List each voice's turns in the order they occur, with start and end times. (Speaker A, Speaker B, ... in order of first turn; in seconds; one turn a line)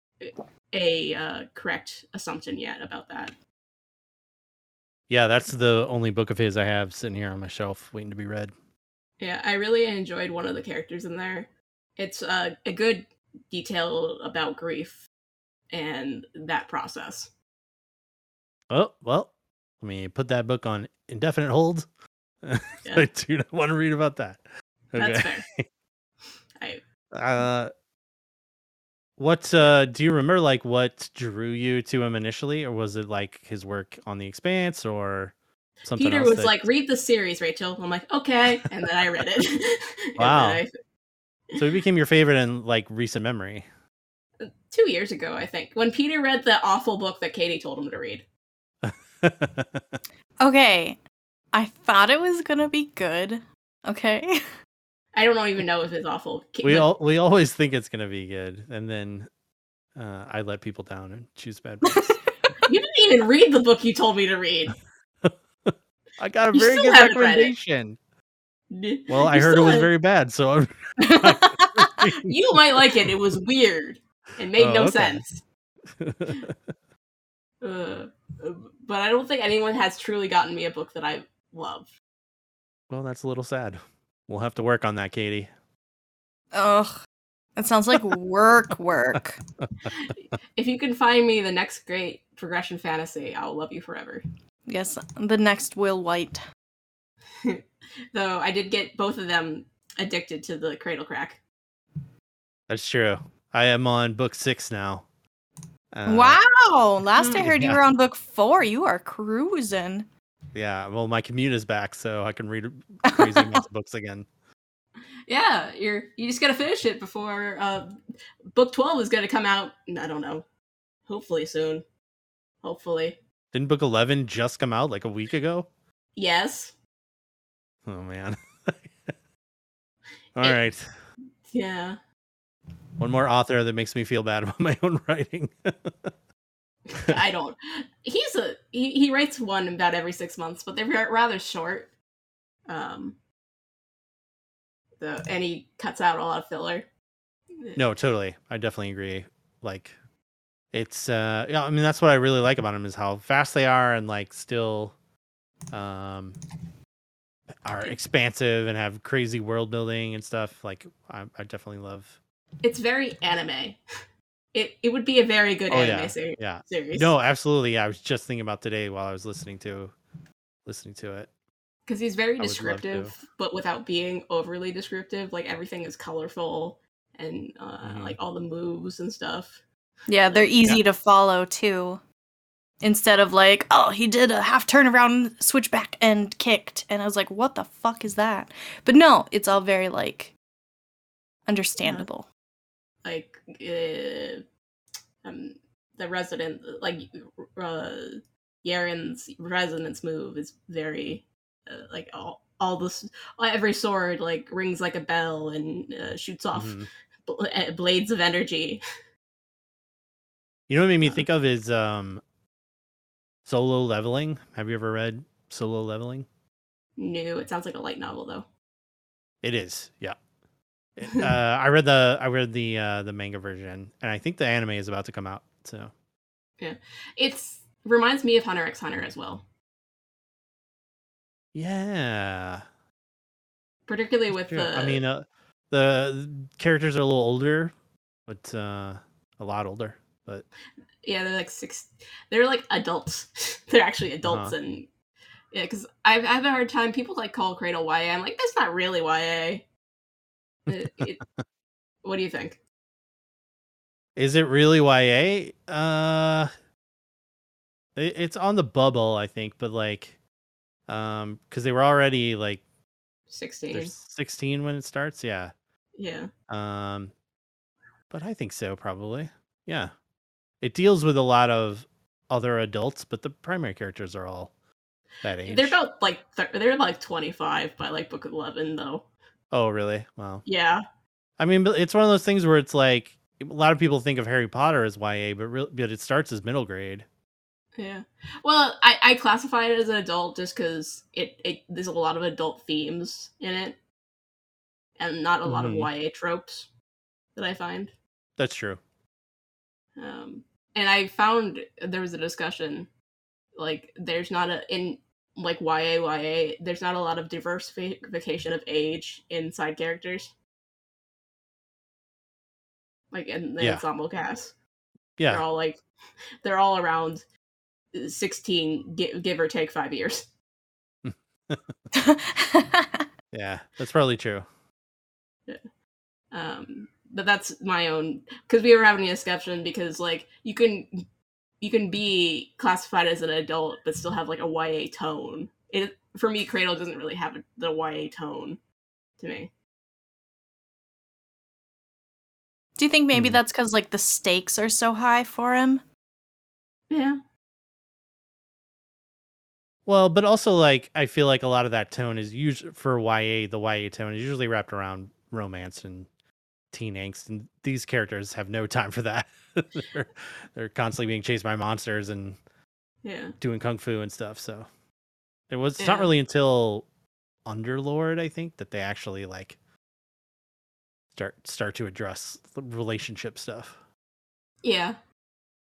Speaker A: 0.2-3.3
Speaker B: 5.1-8.5
Speaker A: 9.2-15.1
Speaker A: 15.7-17.3
Speaker B: 18.7-21.9
Speaker B: 22.4-24.4
Speaker B: 24.9-25.6
Speaker A: 24.9-25.5
Speaker B: 27.1-27.7
Speaker B: 29.2-35.3
Speaker B: 35.8-36.6
Speaker A: 36.0-40.7
Speaker B: 40.2-40.6
Speaker B: 41.5-43.6
Speaker A: 44.4-48.2
Speaker B: 48.8-50.0
Speaker C: 50.4-51.0
Speaker C: 51.5-54.4
Speaker A: 55.1-56.9
Speaker B: 56.6-59.3
Speaker B: 60.0-62.2
Speaker A: 62.6-64.7
Speaker B: 65.2-68.0
Speaker A: 66.5-67.5
Speaker A: 68.7-69.9
Speaker B: 69.1-72.3
Speaker C: 71.0-72.0
Speaker A: 72.2-75.4
Speaker B: 74.6-75.2
Speaker B: 76.0-76.5
Speaker A: 77.6-81.9
Speaker B: 82.9-85.5
Speaker C: 86.5-87.0
Speaker C: 87.5-89.4
Speaker A: 89.9-94.2
Speaker C: 94.7-96.4
Speaker A: 97.4-101.4
Speaker B: 102.7-105.0
Speaker B: 105.9-106.4
Speaker C: 106.0-110.1
Speaker A: 107.2-107.5
Speaker B: 107.4-107.8
Speaker B: 110.5-114.2
Speaker C: 113.0-113.6
Speaker A: 115.3-118.0
Speaker A: 118.5-120.5
Speaker A: 121.1-121.8
Speaker A: 122.6-123.2
Speaker B: 123.5-125.7
Speaker A: 126.2-126.7
Speaker B: 127.8-128.9
Speaker B: 130.3-130.8
Speaker A: 131.5-132.0
Speaker B: 133.0-136.1
Speaker A: 136.9-141.9
Speaker B: 137.0-137.2
Speaker A: 142.7-143.2
Speaker A: 145.0-146.9
Speaker B: 147.8-149.9
Speaker B: 150.7-154.9
Speaker B: 155.7-156.4
Speaker B: 157.6-162.2
Speaker A: 162.6-163.8
Speaker A: 164.5-167.1
Speaker B: 165.7-169.9
Speaker B: 170.7-171.3
Speaker A: 171.9-179.6
Speaker B: 172.4-173.1
Speaker B: 177.8-178.2
Speaker C: 180.1-182.0
Speaker A: 180.3-180.7
Speaker C: 182.8-190.3
Speaker C: 191.5-192.3
Speaker A: 191.8-192.1
Speaker A: 193.0-194.4
Speaker A: 195.2-208.8
Speaker B: 206.5-206.9
Speaker B: 210.7-212.2
Speaker B: 213.4-216.2
Speaker A: 217.0-218.5
Speaker B: 219.4-220.2
Speaker B: 221.0-225.9
Speaker A: 226.6-229.4
Speaker B: 231.5-232.6
Speaker A: 233.9-235.0
Speaker B: 234.5-237.7
Speaker B: 238.3-240.4
Speaker A: 241.0-244.9
Speaker B: 244.2-244.5
Speaker A: 245.5-249.7
Speaker B: 250.7-251.1
Speaker A: 250.7-251.2
Speaker A: 252.0-252.6
Speaker B: 254.2-256.5
Speaker B: 257.9-260.2
Speaker B: 260.9-262.6
Speaker A: 263.3-263.9
Speaker B: 263.7-265.5
Speaker A: 265.9-266.3
Speaker B: 266.5-267.1
Speaker B: 268.1-269.9
Speaker B: 270.6-274.5
Speaker B: 275.2-275.8
Speaker A: 275.4-279.1
Speaker B: 279.5-280.4
Speaker A: 280.4-280.8
Speaker B: 281.4-287.0
Speaker A: 287.8-293.8
Speaker A: 295.0-296.7
Speaker B: 295.4-295.9
Speaker A: 297.3-297.9
Speaker B: 298.4-298.8
Speaker A: 300.0-302.9
Speaker A: 303.6-310.3
Speaker A: 313.1-314.6
Speaker B: 315.2-315.4
Speaker A: 315.3-315.8
Speaker A: 316.4-317.2
Speaker A: 317.9-320.3
Speaker B: 321.0-321.7
Speaker C: 321.9-323.1
Speaker B: 323.3-324.4
Speaker A: 326.3-331.0
Speaker A: 331.6-338.6
Speaker A: 339.2-339.5
Speaker C: 342.8-345.8
Speaker B: 343.1-343.4
Speaker A: 346.9-347.2
Speaker B: 349.9-356.1
Speaker B: 356.7-362.4
Speaker A: 363.0-363.4
Speaker B: 363.4-364.7
Speaker B: 365.5-366.9
Speaker A: 365.8-366.1
Speaker B: 367.4-369.6
Speaker B: 371.1-373.8
Speaker A: 374.6-375.0